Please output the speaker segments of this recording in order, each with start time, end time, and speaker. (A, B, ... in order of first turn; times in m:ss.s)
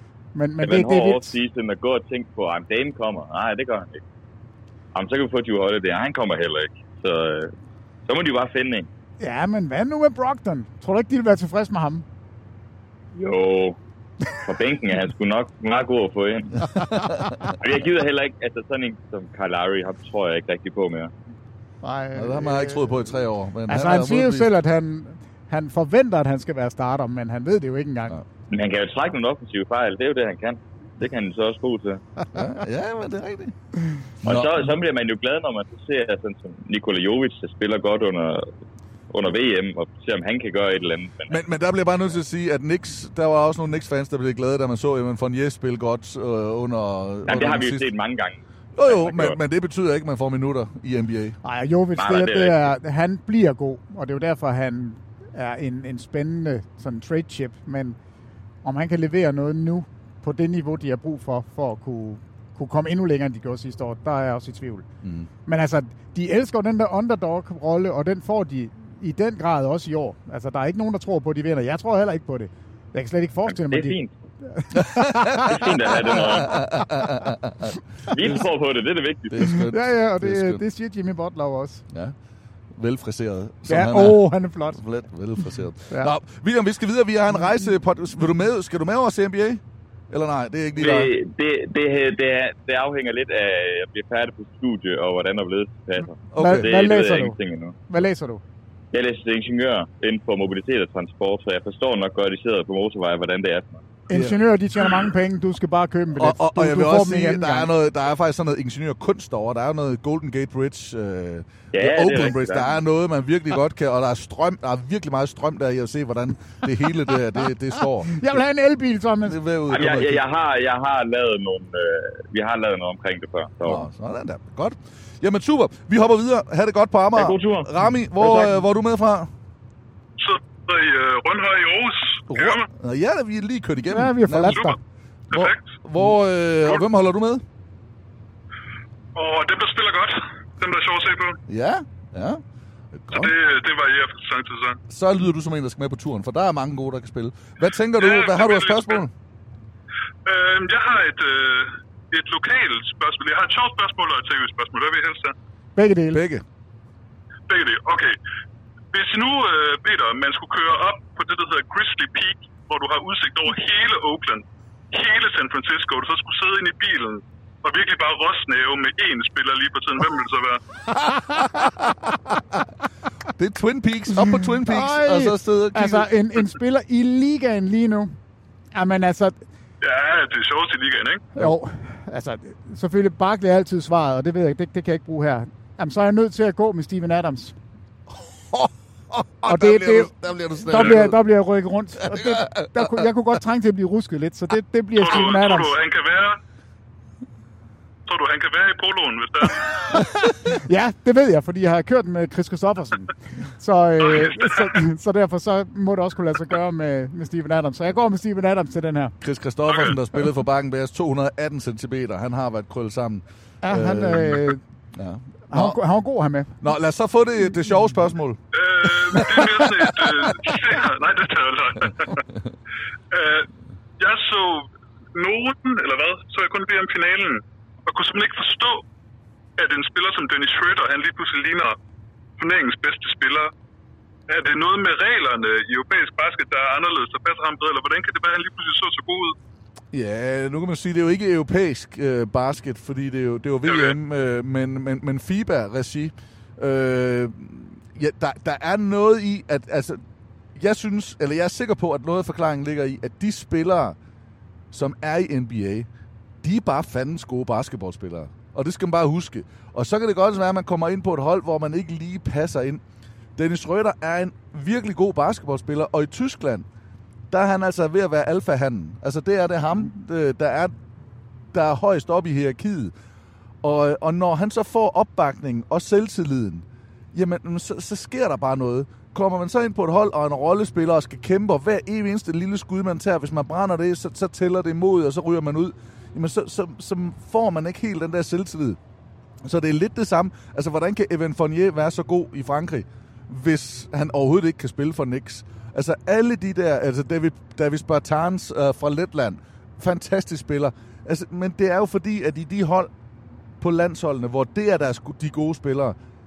0:00.3-0:01.3 A
0:00.6-0:04.0 B
0:04.9-0:07.5 B
0:08.1-0:08.9 B
0:09.2-0:12.0 A
0:13.2-0:13.8 B
0:14.4-0:16.7 B
0:16.7-0:17.3 C
0:17.6-0:21.1 B
0:21.8-0:23.0 A
0:22.1-0:24.5 C
0:23.7-0:28.2 A
0:28.5-0:32.0 B
0:32.3-0:33.5 C
0:34.2-0:34.6 C
0:34.2-0:38.5 B
0:39.1-0:41.4 B
0:41.3-0:47.8 C
0:47.3-0:49.4 B
0:48.8-0:51.4 C
0:51.4-0:58.0 A
0:52.0-0:52.7 B
0:58.6-1:04.8 A
1:05.0-1:05.3 C
1:05.4-1:14.0 A
1:13.6-1:14.1 B
1:14.5-1:15.5 A
1:14.7-1:18.4 C
1:15.4-1:16.6 B
1:18.1-1:19.6 B
1:19.3-1:20.6 C
1:19.5-1:21.8 A
1:21.9-1:22.1 C
1:22.7-1:31.1 C
1:23.7-1:24.8 A
1:30.8-1:37.8 B
1:36.3-1:36.7 C
1:36.4-1:37.4 A
1:37.9-1:38.4 A
1:38.9-1:43.8 B
1:44.1-1:47.7 A
1:44.1-1:44.4 C
1:46.1-1:58.2 C
1:51.7-1:52.7 B
1:58.0-1:59.4 A
1:59.2-2:00.2 C
1:59.7-2:03.8 B
2:03.6-2:09.3 C
2:07.1-2:08.5 B
2:10.2-2:12.6 D
2:12.3-2:14.6 C
2:13.9-2:14.8 A
2:14.5-2:14.8 D
2:15.3-2:15.8 D
2:15.3-2:17.4 C
2:19.2-2:21.4 D
2:21.5-2:22.4 C
2:22.9-2:23.3 C
2:23.1-2:24.8 D
2:24.9-2:29.1 C
2:27.9-2:29.0 D
2:30.2-2:35.3 D
2:35.8-2:36.2 A
2:36.1-2:36.4 C
2:37.5-2:38.2 D
2:38.9-2:50.6 D
2:51.1-2:52.1 C
2:53.4-2:56.1 C
2:54.2-2:58.2 A
2:58.7-2:59.4 A
2:59.8-3:01.2 D
3:01.3-3:07.5 A
3:08.2-3:11.2 C
3:09.5-3:10.1 A
3:10.7-3:15.7 A
3:12.0-3:13.0 C
3:15.0-3:16.4 D
3:18.1-3:19.8 D
3:19.9-3:29.1 A
3:24.0-3:24.8 D
3:29.2-3:35.8 C
3:29.7-3:30.0 D
3:33.6-3:34.6 A
3:35.5-3:36.6 A
3:36.6-3:40.3 C
3:38.5-3:42.2 D
3:43.1-3:43.5 D
3:44.0-3:48.8 D
3:49.6-3:51.8 D
3:52.4-3:53.5 D
3:54.3-3:59.3 D
3:59.9-4:10.0 C
4:03.6-4:04.0 D
4:10.5-4:14.0 C
4:14.7-4:15.9 C
4:16.4-4:22.8 C
4:23.4-4:26.6 C
4:27.3-4:30.7 C
4:31.5-4:32.9 C
4:33.6-4:48.8 C
4:49.4-5:02.9 C
5:03.6-5:06.0 C